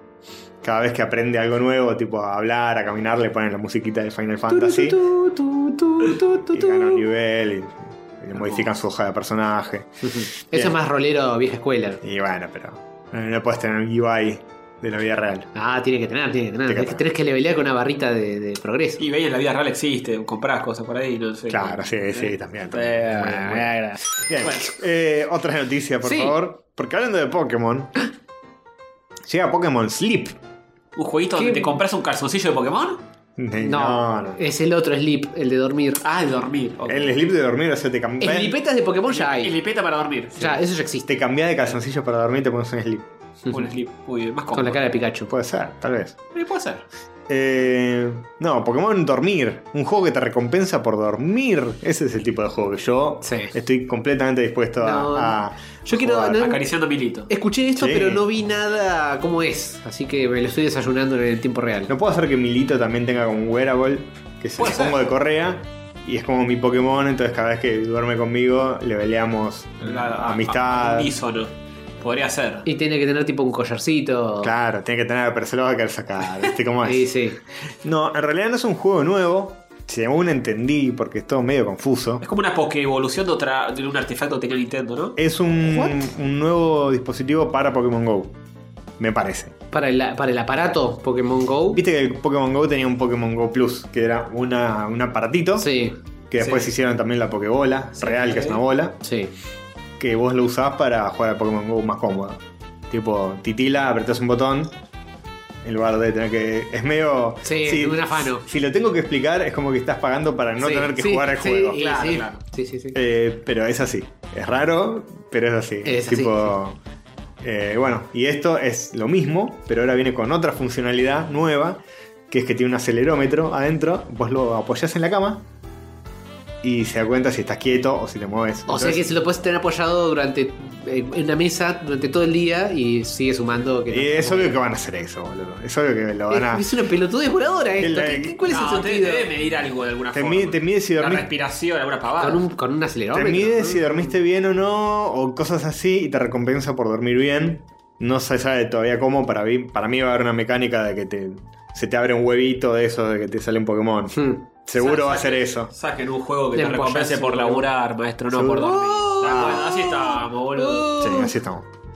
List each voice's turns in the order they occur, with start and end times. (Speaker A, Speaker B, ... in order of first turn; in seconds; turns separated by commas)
Speaker A: 0.6-5.0, Speaker B: 4.5-7.0, Speaker A: 6.5-10.8, Speaker B: 10.0-12.0, Speaker A: 12.0-15.5, Speaker B: 15.6-19.1, Speaker A: 16.7-17.1, Speaker C: 19.0-24.7, Speaker A: 21.5-28.0, Speaker B: 26.1-26.4, Speaker A: 29.3-30.4, Speaker C: 31.0-33.0, Speaker B: 31.4-31.7, Speaker A: 33.4-34.4, Speaker B: 33.6-36.0, Speaker C: 36.0-37.2, Speaker A: 36.9-38.6, Speaker B: 38.2-39.5, Speaker C: 39.1-40.4, Speaker B: 40.4-41.1, Speaker A: 41.1-43.1, Speaker C: 43.5-44.8, Speaker B: 44.5-45.3, Speaker A: 45.3-46.2, Speaker C: 46.4-46.9, Speaker A: 47.3-56.5, Speaker B: 53.2-53.5, Speaker B: 54.8-56.6, Speaker C: 56.4-57.3, Speaker B: 57.3-61.9, Speaker A: 57.8-58.2, Speaker A: 61.9-71.1, Speaker C: 64.6-65.0, Speaker C: 69.8-72.7, Speaker B: 72.7-74.5, Speaker A: 74.4-77.1, Speaker B: 76.8-77.4, Speaker A: 77.8-82.2, Speaker C: 82.2-85.2, Speaker A: 85.2-88.4, Speaker B: 85.7-86.0, Speaker A: 89.0-89.5, Speaker B: 89.7-91.8, Speaker A: 91.7-95.8, Speaker B: 95.6-96.0, Speaker A: 96.3-99.0, Speaker C: 96.4-96.7, Speaker C: 98.0-98.6, Speaker B: 99.0-99.3, Speaker A: 100.0-104.7, Speaker A: 105.6-111.8, Speaker B: 107.5-108.5, Speaker B: 110.6-113.0, Speaker C: 111.8-112.4, Speaker A: 112.9-116.8, Speaker B: 115.8-116.5, Speaker A: 117.4-125.5, Speaker A: 126.6-129.1, Speaker B: 128.7-134.6, Speaker A: 133.9-136.7, Speaker B: 136.3-139.3, Speaker A: 137.8-138.4, Speaker C: 138.5-142.4, Speaker A: 140.1-141.3, Speaker B: 142.2-144.1, Speaker A: 143.1-155.7, Speaker B: 154.1-154.4, Speaker C: 154.8-161.3, Speaker B: 156.6-157.7, Speaker A: 158.3-159.8, Speaker B: 158.9-161.3, Speaker A: 161.0-161.7